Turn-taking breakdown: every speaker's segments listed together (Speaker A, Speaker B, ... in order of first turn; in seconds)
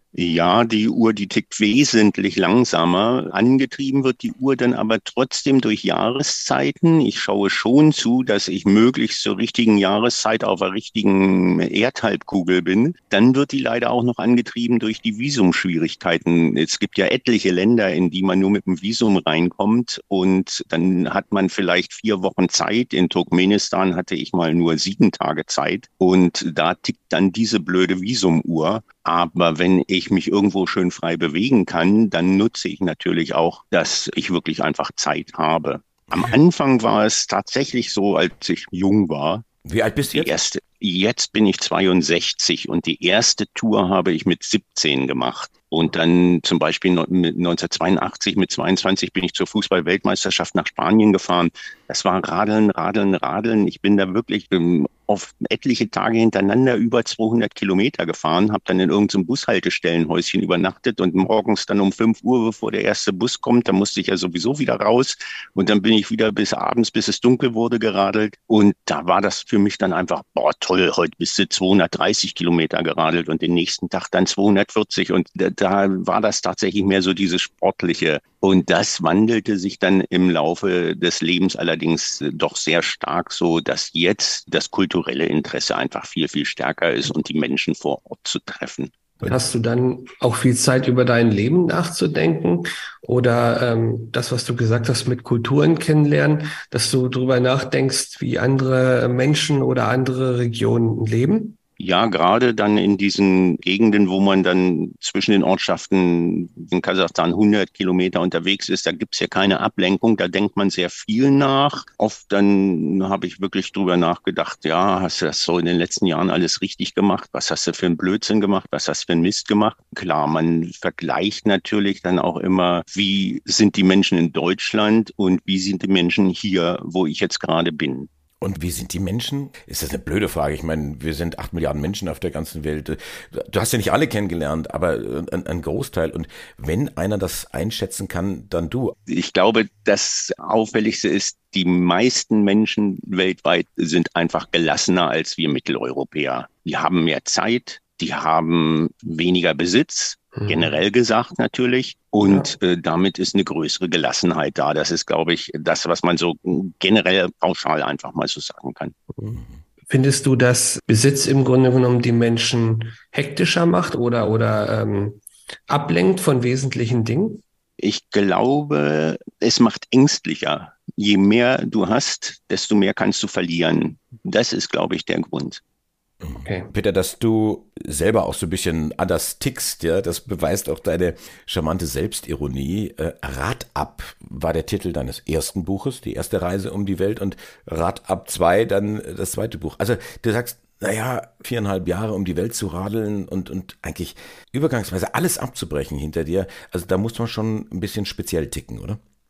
Speaker A: 0.1-39.5, 40.1-88.9, 101.8-128.1, 139.1-158.9, 167.8-175.6
Speaker B: 39.6-40.3, 128.4-138.9, 176.2-199.0
Speaker C: 89.2-101.6, 150.4-150.7, 152.2-152.5, 159.9-167.4, 176.4-176.7